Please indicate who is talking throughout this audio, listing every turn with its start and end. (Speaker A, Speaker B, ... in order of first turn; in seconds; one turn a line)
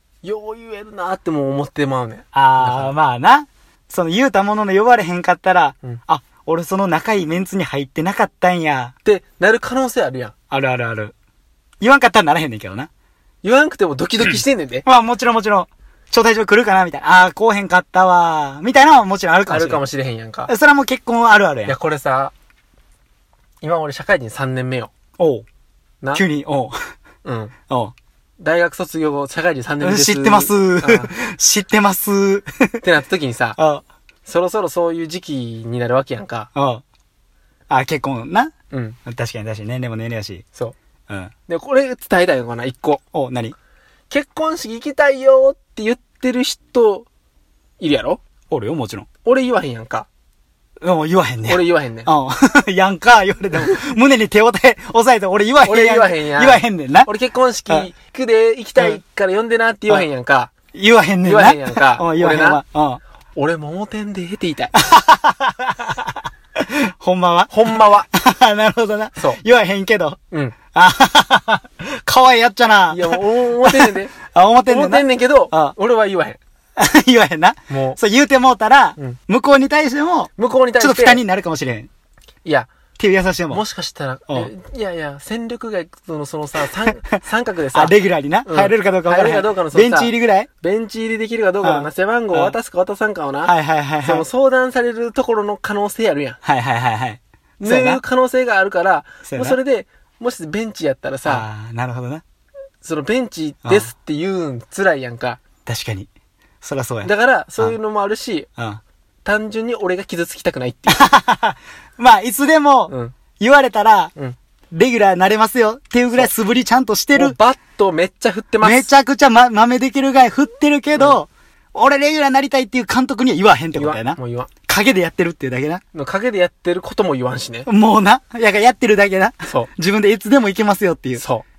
Speaker A: 0.2-2.9
Speaker B: 2.3-8.9
Speaker A: 9.0-10.3
Speaker B: 10.5-11.1
Speaker B: 11.8-12.9
Speaker A: 13.4-14.9
Speaker B: 14.8-19.8
Speaker A: 19.5-20.5
Speaker B: 20.5-21.8
Speaker A: 21.7-22.3
Speaker A: 23.6-24.9
Speaker B: 25.2-25.5
Speaker B: 26.1-26.8
Speaker A: 27.2-27.6
Speaker B: 27.7-27.9
Speaker A: 28.4-31.1
Speaker B: 29.8-32.8
Speaker A: 32.8-33.6
Speaker B: 33.6-33.8
Speaker A: 34.2-36.5
Speaker B: 36.5-36.8
Speaker B: 37.7-38.5
Speaker A: 38.7-39.0
Speaker B: 39.0-40.5
Speaker A: 41.5-43.0
Speaker B: 43.1-43.5
Speaker A: 44.1-47.1
Speaker A: 47.8-48.2
Speaker B: 48.5-49.1
Speaker A: 49.2-50.1
Speaker B: 50.8-57.1
Speaker A: 51.5-52.1
Speaker A: 53.6-53.8
Speaker A: 55.6-60.5
Speaker B: 60.7-63.0
Speaker A: 61.2-62.6
Speaker A: 63.4-64.8
Speaker B: 64.8-70.2
Speaker A: 67.5-68.1
Speaker A: 69.2-69.4
Speaker A: 70.3-70.6
Speaker B: 70.7-75.8
Speaker A: 72.9-76.4
Speaker B: 76.8-81.9
Speaker A: 77.7-78.0
Speaker A: 80.4-81.2
Speaker A: 82.5-82.7
Speaker B: 83.0-83.6
Speaker A: 83.5-87.9
Speaker B: 87.7-90.5
Speaker A: 88.5-96.4
Speaker B: 91.6-92.5
Speaker B: 93.4-94.3
Speaker B: 96.4-98.0
Speaker A: 97.6-101.5
Speaker B: 99.3-99.6
Speaker B: 101.3-102.2
Speaker A: 102.8-105.4
Speaker B: 103.7-103.9
Speaker B: 105.7-106.1
Speaker B: 106.6-107.8
Speaker A: 107.0-108.5
Speaker A: 109.2-111.1
Speaker B: 110.9-114.1
Speaker A: 112.9-113.2
Speaker B: 114.7-117.4
Speaker A: 117.2-118.9
Speaker B: 118.6-125.8
Speaker A: 123.8-124.5
Speaker A: 125.9-127.7
Speaker B: 127.7-131.2
Speaker A: 131.2-131.4